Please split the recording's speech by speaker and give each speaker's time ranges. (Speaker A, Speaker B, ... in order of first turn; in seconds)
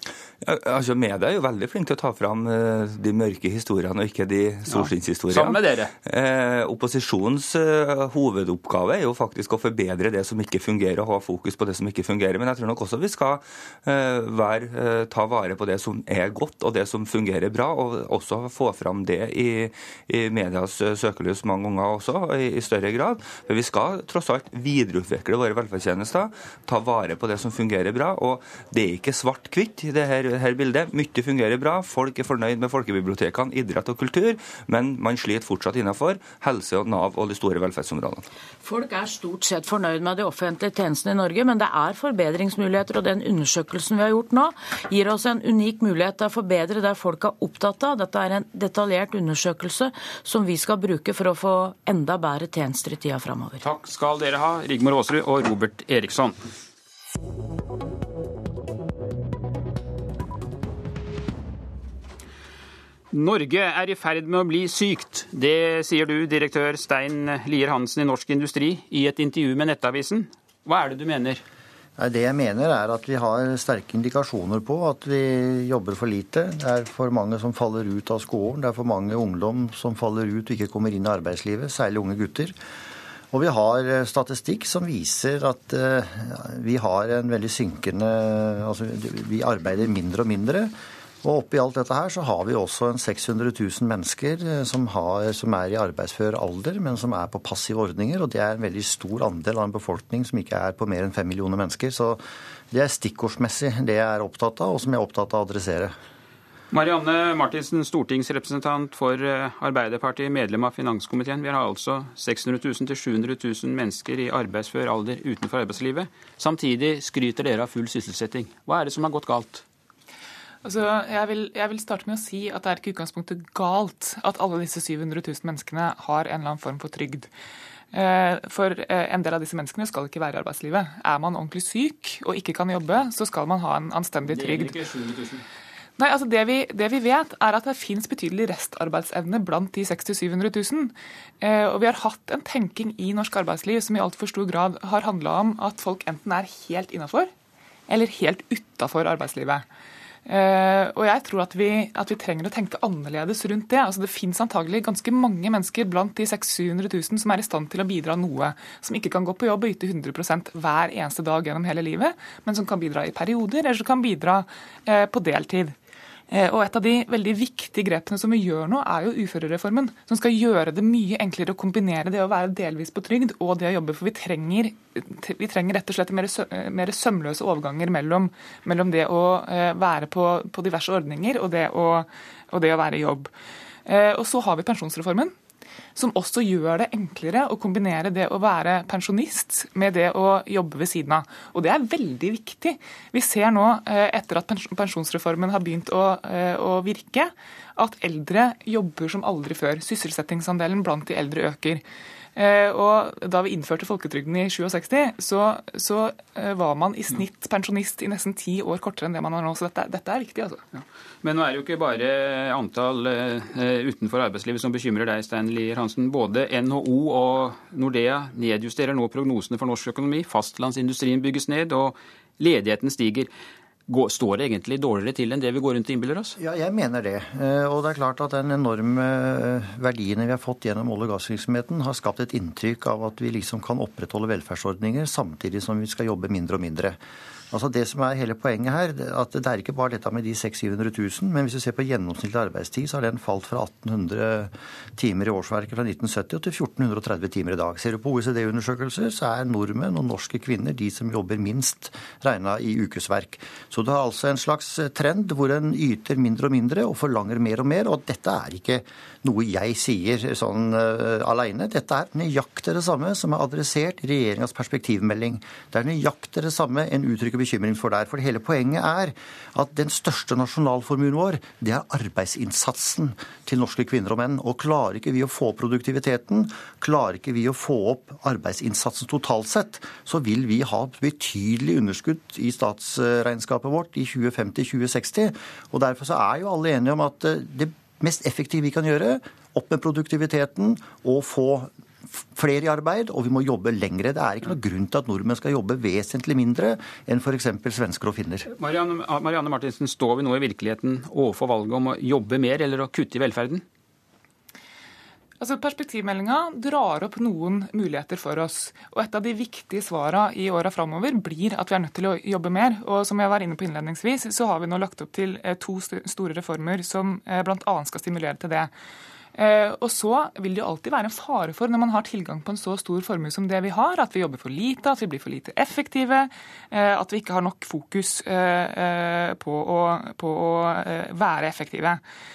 Speaker A: 0.4-38.2
Speaker B: 4.7-5.9, 53.6-56.4, 63.1-71.4, 106.7-119.6, 134.2-135.4, 210.8-223.3, 223.9-226.3, 298.5-303.6
Speaker C: 38.6-53.6
Speaker D: 72.0-82.5, 83.3-102.2, 102.7-105.9, 226.4-237.0, 237.5-298.5
Speaker E: 120.7-127.3, 127.9-134.7, 136.0-147.3, 147.9-149.6, 150.2-165.7, 166.3-183.3, 183.9-185.3, 185.9-201.8, 202.3-210.6, 305.4-318.7, 319.4-332.0